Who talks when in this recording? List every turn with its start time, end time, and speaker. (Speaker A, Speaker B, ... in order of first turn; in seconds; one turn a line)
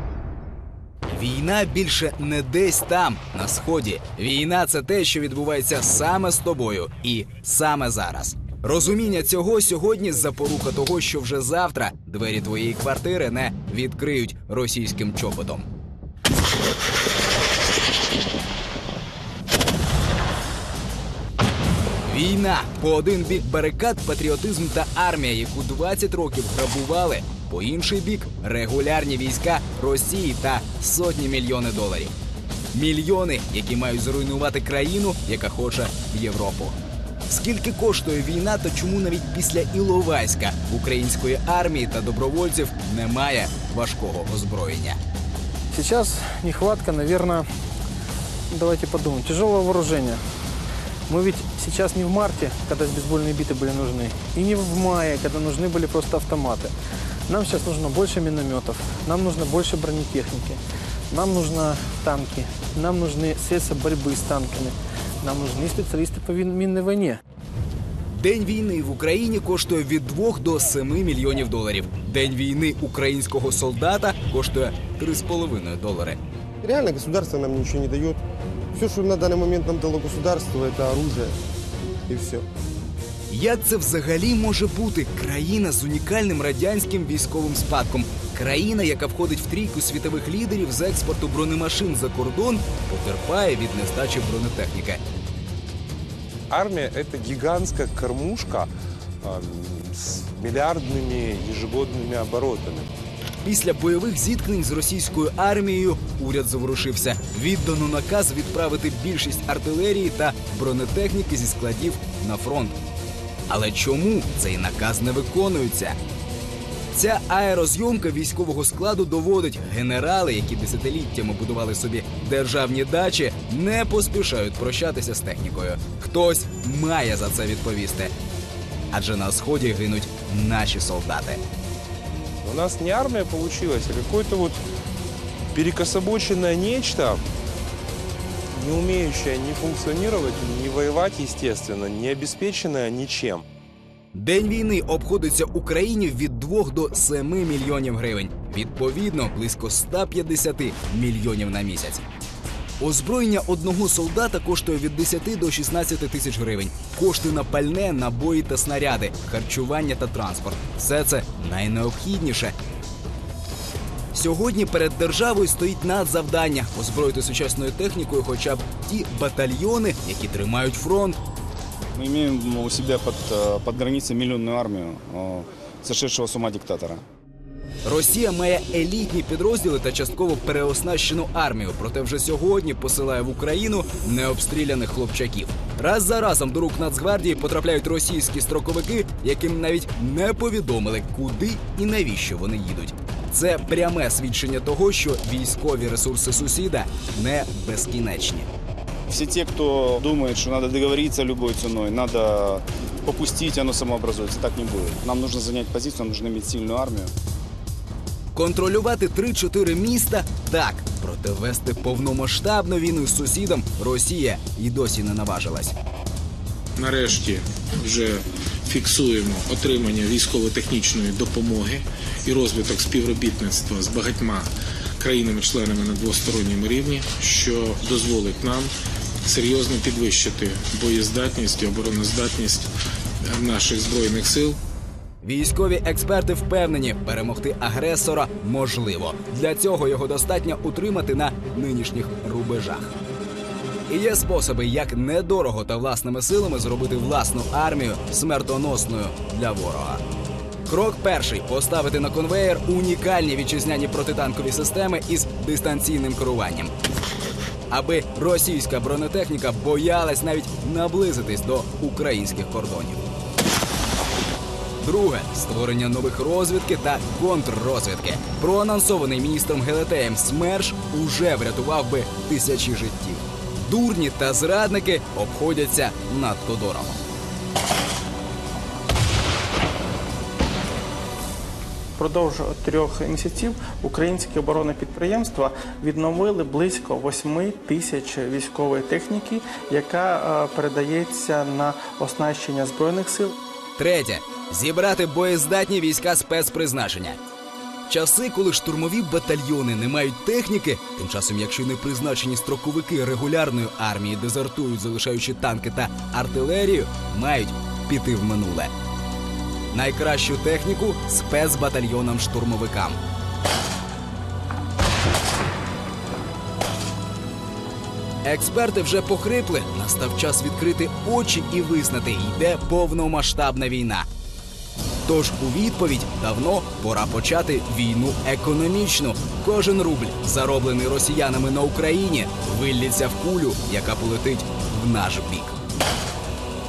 Speaker A: 1.2-15.6
Speaker A: 22.1-32.1
Speaker A: 32.7-36.7
Speaker A: 37.3-44.9
Speaker B: 45.7-47.5
Speaker B: 48.5-50.2
Speaker B: 51.1-56.7
Speaker B: 57.3-60.6
Speaker B: 61.1-67.2
Speaker A: 68.1-76.2
Speaker C: 76.6-78.2
Speaker C: 78.7-81.4
Speaker C: 82.1-82.4
Speaker A: 83.3-95.0
Speaker D: 96.5-98.7
Speaker D: 99.2-102.9
Speaker A: 103.4-112.7
Speaker A: 113.5-115.9
Speaker A: 116.9-128.1
Speaker A: 128.9-131.4
Speaker D: 132.4-134.6
Speaker D: 135.5-137.2
Speaker D: 138.5-143.4
Speaker A: 144.2-152.0
Speaker A: 152.8-162.5
Speaker A: 164.1-171.2
Speaker E: 171.9-177.0
Speaker A: 177.8-198.4
Speaker E: 199.1-207.1
Speaker A: 208.3-215.7
Speaker F: 216.8-228.7
Speaker F: 229.2-232.7
Speaker F: 233.2-234.6
Speaker A: 235.2-242.9
Speaker A: 243.9-250.0
Speaker A: 250.7-256.7
Speaker A: 257.7-262.9
Speaker A: 264.8-276.9
Speaker G: 282.0-293.3
Speaker A: 293.8-297.1
Speaker A: 297.9-308.7
Speaker A: 309.7-312.9
Speaker A: 318.2-324.0
Speaker A: 325.1-335.4